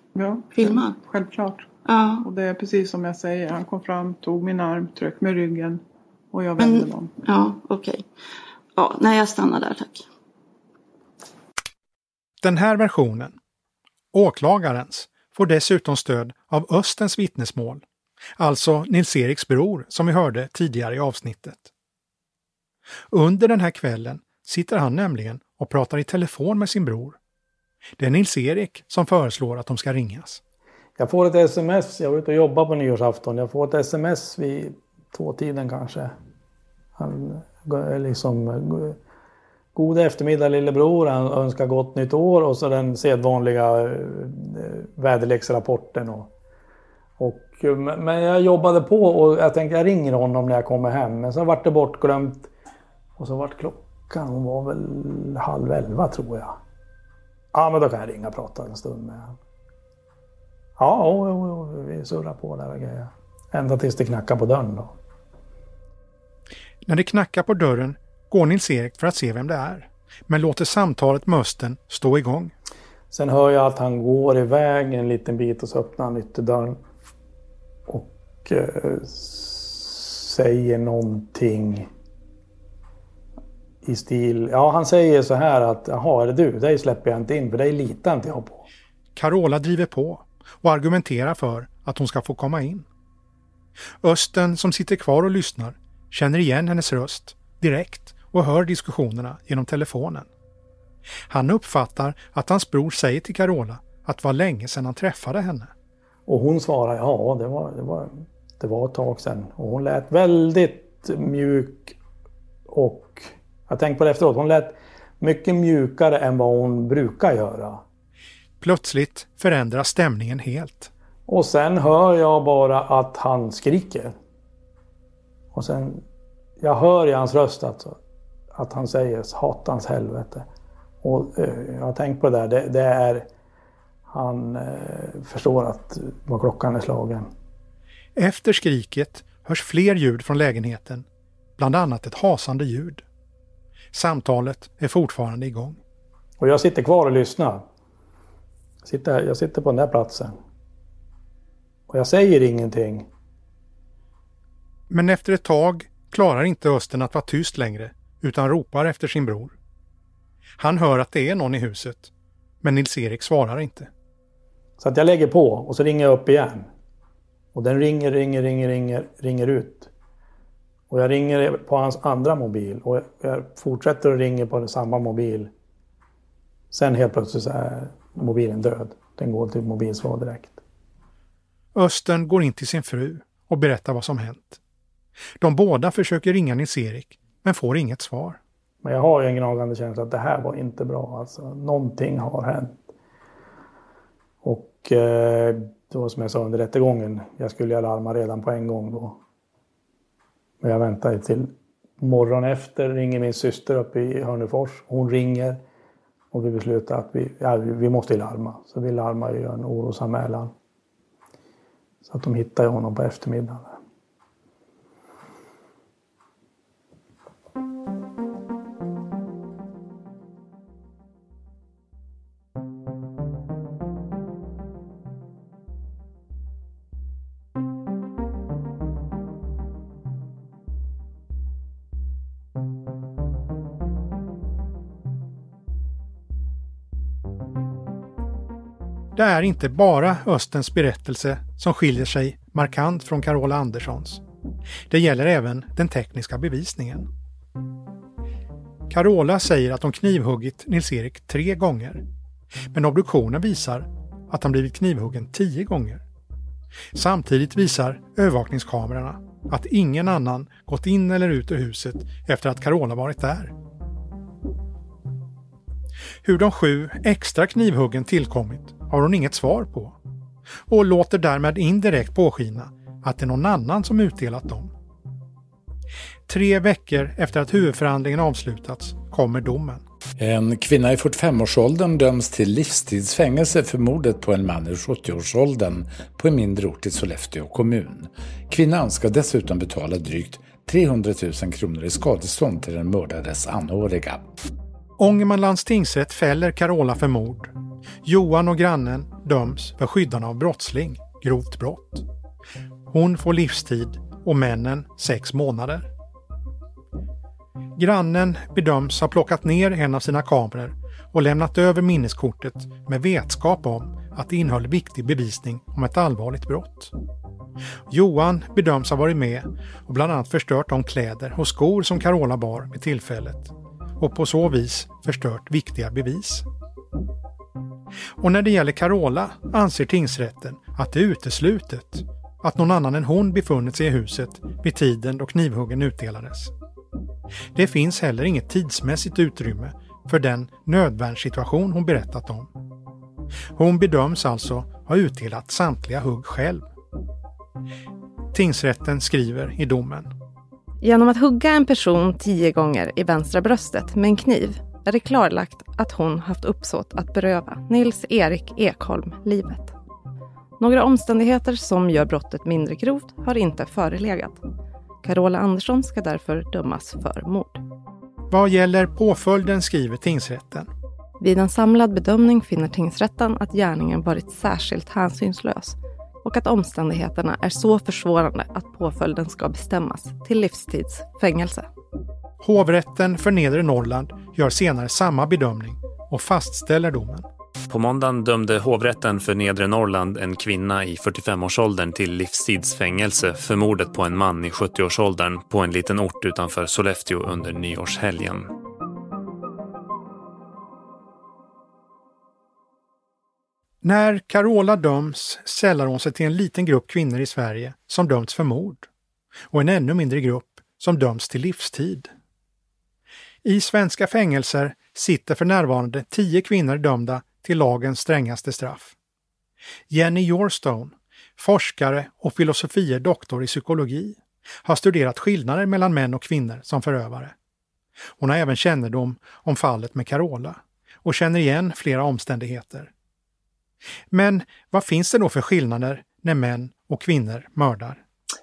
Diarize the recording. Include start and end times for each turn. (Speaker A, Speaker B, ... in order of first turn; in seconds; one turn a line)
Speaker A: 0.1-1.7
Speaker B: 0.6-1.0
Speaker B: 1.9-2.3
Speaker A: 2.2-7.1
Speaker B: 6.6-8.1
Speaker B: 8.8-10.1
Speaker C: 12.4-13.3
Speaker C: 14.1-17.8
Speaker C: 18.4-21.7
Speaker C: 23.1-27.2
Speaker C: 28.0-30.4
Speaker D: 31.0-36.1
Speaker D: 37.0-39.0
Speaker D: 39.8-46.3
Speaker D: 47.2-52.5
Speaker D: 53.2-56.6
Speaker D: 57.5-59.4
Speaker D: 60.8-64.9
Speaker C: 66.9-72.5
Speaker D: 73.1-76.8
Speaker D: 77.9-81.9
Speaker D: 83.8-88.7
Speaker C: 89.2-92.9
Speaker C: 94.0-100.3
Speaker C: 101.3-105.7
Speaker D: 106.3-112.0
Speaker D: 112.7-117.8
Speaker C: 118.6-120.9
Speaker D: 121.3-124.1
Speaker D: 125.5-126.0
Speaker D: 126.6-128.0
Speaker D: 128.6-130.4
Speaker D: 131.0-133.3
Speaker D: 134.1-137.3
Speaker C: 138.2-141.1
Speaker C: 141.6-143.0
Speaker C: 143.9-145.8
Speaker D: 146.4-147.6
Speaker D: 148.8-150.4
Speaker D: 151.9-153.1
Speaker C: 154.9-159.6
Speaker C: 160.6-162.1
Speaker C: 162.6-163.9
Speaker D: 164.8-166.7
Speaker D: 167.5-169.9
Speaker D: 170.9-175.5
Speaker D: 176.7-180.6
Speaker C: 181.7-184.6
Speaker C: 185.4-188.4
Speaker D: 188.8-192.8
Speaker D: 194.4-199.2
Speaker D: 200.6-205.6
Speaker D: 206.3-210.5
Speaker D: 212.1-213.8
Speaker C: 239.2-244.2
Speaker C: 244.9-247.1
Speaker C: 248.9-252.0
Speaker C: 252.7-256.0
Speaker C: 256.9-263.5
Speaker C: 266.2-270.0
Speaker C: 270.7-274.7
Speaker C: 276.3-279.8
Speaker E: 280.2-294.3
Speaker C: 295.0-297.5
Speaker C: 298.0-302.0
Speaker C: 302.9-305.9
Speaker C: 307.8-316.9
Speaker C: 317.9-326.5
Speaker C: 328.2-336.5
Speaker C: 337.5-342.5
Speaker C: 343.5-346.7
Speaker C: 348.3-350.1
Speaker F: 350.8-359.7
Speaker F: 360.6-364.4
Speaker F: 365.0-367.6
Speaker C: 368.3-370.7
Speaker F: 371.2-381.7
Speaker C: 382.4-387.3
Speaker G: 387.7-398.5
Speaker C: 403.8-408.9
Speaker C: 409.5-412.1
Speaker C: 413.4-418.9
Speaker C: 419.9-427.3
Speaker C: 428.2-432.9
Speaker C: 434.1-438.0